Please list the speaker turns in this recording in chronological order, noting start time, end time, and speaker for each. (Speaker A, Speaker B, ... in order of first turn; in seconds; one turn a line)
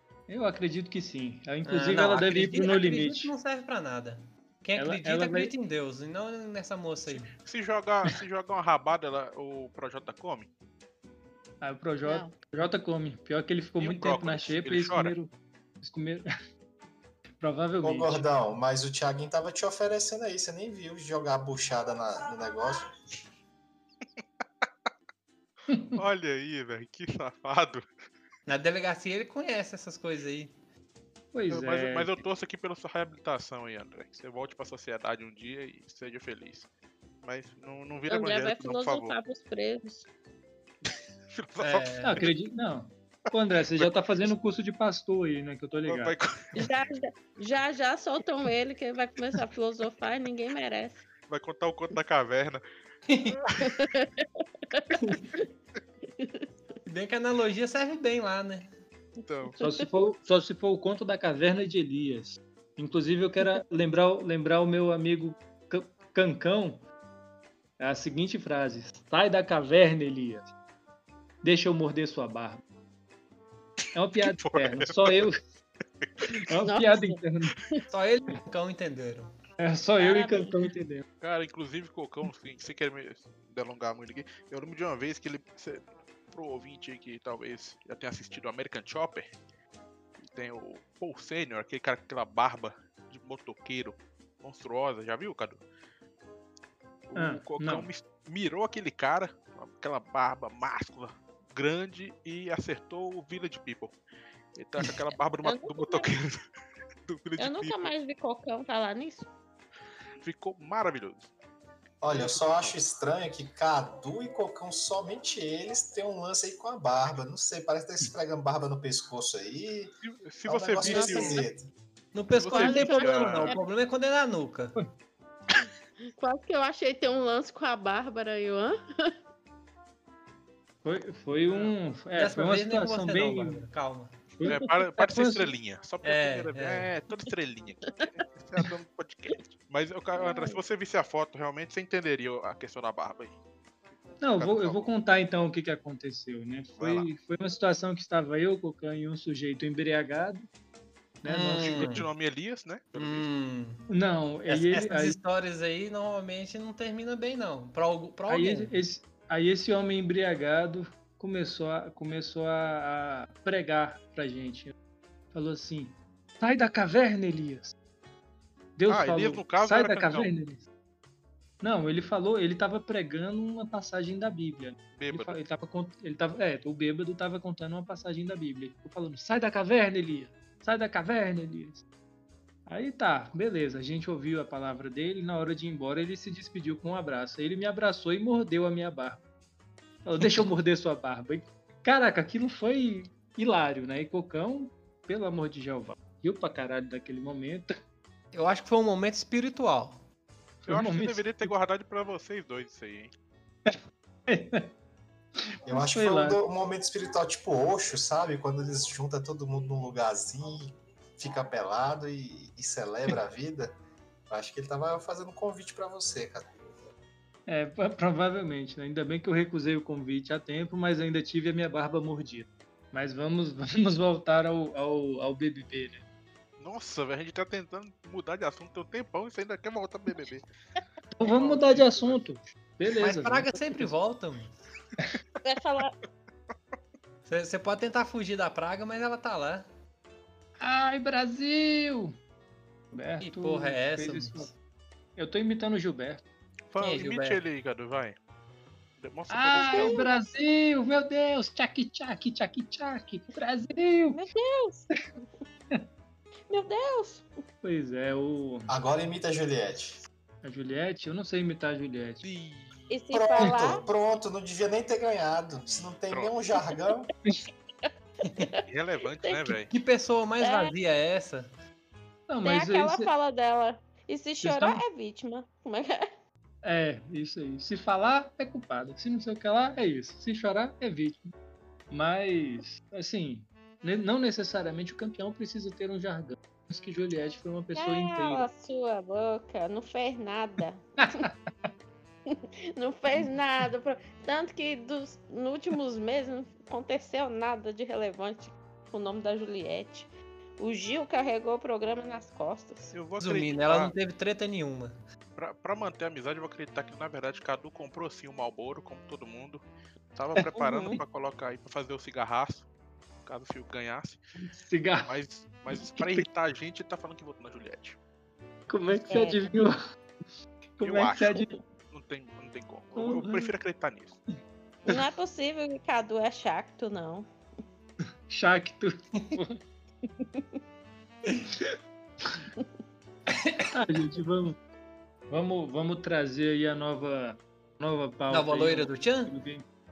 Speaker A: 0.3-3.3
Speaker B: 1.7-7.3
Speaker A: 4.8-5.5
Speaker C: 7.1-10.5
Speaker A: 11.6-16.3
Speaker D: 12.0-12.3
Speaker C: 13.8-15.2
Speaker A: 17.4-18.2
Speaker E: 17.8-22.9
Speaker C: 25.9-27.9
Speaker B: 28.5-30.6
Speaker A: 31.3-32.2
Speaker C: 31.5-36.7
Speaker C: 37.2-39.2
Speaker D: 38.1-40.1
Speaker C: 41.3-42.3
Speaker B: 41.6-42.2
Speaker A: 42.0-46.1
Speaker C: 45.9-46.7
Speaker D: 46.6-51.0
Speaker C: 51.3-52.6
Speaker B: 53.1-53.4
Speaker C: 53.3-53.8
Speaker D: 53.6-55.5
Speaker B: 55.0-55.3
Speaker D: 56.2-56.5
Speaker B: 56.9-58.7
Speaker C: 59.2-59.6
Speaker D: 59.5-59.8
Speaker A: 59.6-66.8
Speaker A: 67.8-70.5
Speaker A: 71.4-72.6
Speaker A: 74.0-75.4
Speaker C: 74.2-75.3
Speaker C: 76.0-76.3
Speaker A: 76.5-77.6
Speaker D: 76.6-77.8
Speaker B: 77.9-79.3
Speaker A: 79.6-81.0
Speaker D: 80.0-80.5
Speaker C: 81.2-89.3
Speaker C: 90.2-95.6
Speaker C: 97.1-104.0
Speaker A: 97.2-97.9
Speaker C: 104.5-106.4
Speaker D: 105.4-106.1
Speaker C: 107.0-107.9
Speaker D: 107.4-109.3
Speaker C: 110.2-111.3
Speaker E: 112.0-119.9
Speaker C: 112.1-112.8
Speaker C: 120.0-121.4
Speaker E: 120.5-121.7
Speaker D: 120.8-121.4
Speaker B: 122.1-124.8
Speaker C: 122.3-123.6
Speaker D: 122.5-123.6
Speaker D: 126.2-129.1
Speaker A: 130.8-133.6
Speaker B: 132.2-134.2
Speaker A: 134.4-135.5
Speaker C: 134.5-143.3
Speaker B: 136.0-136.9
Speaker D: 140.2-140.6
Speaker A: 144.2-150.5
Speaker C: 144.2-144.9
Speaker C: 146.8-147.1
Speaker A: 151.2-152.0
Speaker B: 151.2-152.1
Speaker C: 151.6-153.3
Speaker B: 152.9-153.9
Speaker A: 153.9-155.2
Speaker B: 154.5-158.7
Speaker A: 158.3-164.7
Speaker A: 165.3-167.8
Speaker A: 168.8-170.7
Speaker C: 168.9-170.3
Speaker A: 171.6-181.8
Speaker C: 175.0-175.4
Speaker A: 182.7-189.2
Speaker A: 190.1-197.8
Speaker B: 198.3-200.0
Speaker A: 200.6-201.5
Speaker C: 200.7-203.1
Speaker A: 204.3-204.7
Speaker E: 205.7-213.7
Speaker A: 205.7-206.4
Speaker E: 214.3-216.5
Speaker A: 217.5-226.0
Speaker C: 226.6-230.5
Speaker A: 231.2-233.9
Speaker C: 231.2-232.2
Speaker B: 233.0-234.6
Speaker D: 235.4-235.9
Speaker B: 237.2-239.7
Speaker A: 240.6-242.2
Speaker A: 242.9-244.5
Speaker B: 243.2-244.5
Speaker A: 245.2-246.2
Speaker C: 246.7-248.2
Speaker B: 246.8-247.4
Speaker C: 249.0-250.1
Speaker A: 249.3-254.2
Speaker D: 249.6-250.1
Speaker D: 254.1-254.9
Speaker D: 256.5-257.3
Speaker A: 257.6-258.7
Speaker E: 258.7-260.0
Speaker A: 260.4-262.2
Speaker C: 262.2-262.9
Speaker D: 262.9-263.9
Speaker E: 263.1-267.1
Speaker C: 265.7-266.3
Speaker D: 267.8-268.6
Speaker B: 268.3-268.5
Speaker C: 268.7-269.7
Speaker D: 269.2-269.6
Speaker B: 269.7-271.5
Speaker D: 270.4-270.8
Speaker A: 272.3-273.1
Speaker D: 272.4-276.1
Speaker A: 274.4-274.8
Speaker A: 276.6-281.3
Speaker A: 281.9-288.5
Speaker D: 287.8-291.3
Speaker A: 291.0-291.3
Speaker D: 292.3-302.9
Speaker C: 302.9-303.9
Speaker B: 303.2-305.0
Speaker C: 305.4-309.6
Speaker C: 310.1-312.7
Speaker D: 310.6-311.0
Speaker C: 313.2-314.2
Speaker A: 314.4-315.1
Speaker C: 315.1-318.0
Speaker A: 315.7-316.3
Speaker A: 318.7-319.8
Speaker D: 319.1-319.5
Speaker A: 320.8-321.5
Speaker C: 320.8-324.2
Speaker A: 322.9-323.5
Speaker D: 324.9-327.3
Speaker A: 328.3-329.6
Speaker D: 330.2-330.5
Speaker B: 333.3-333.7
Speaker A: 333.7-334.6
Speaker A: 335.3-339.6
Speaker B: 338.3-339.3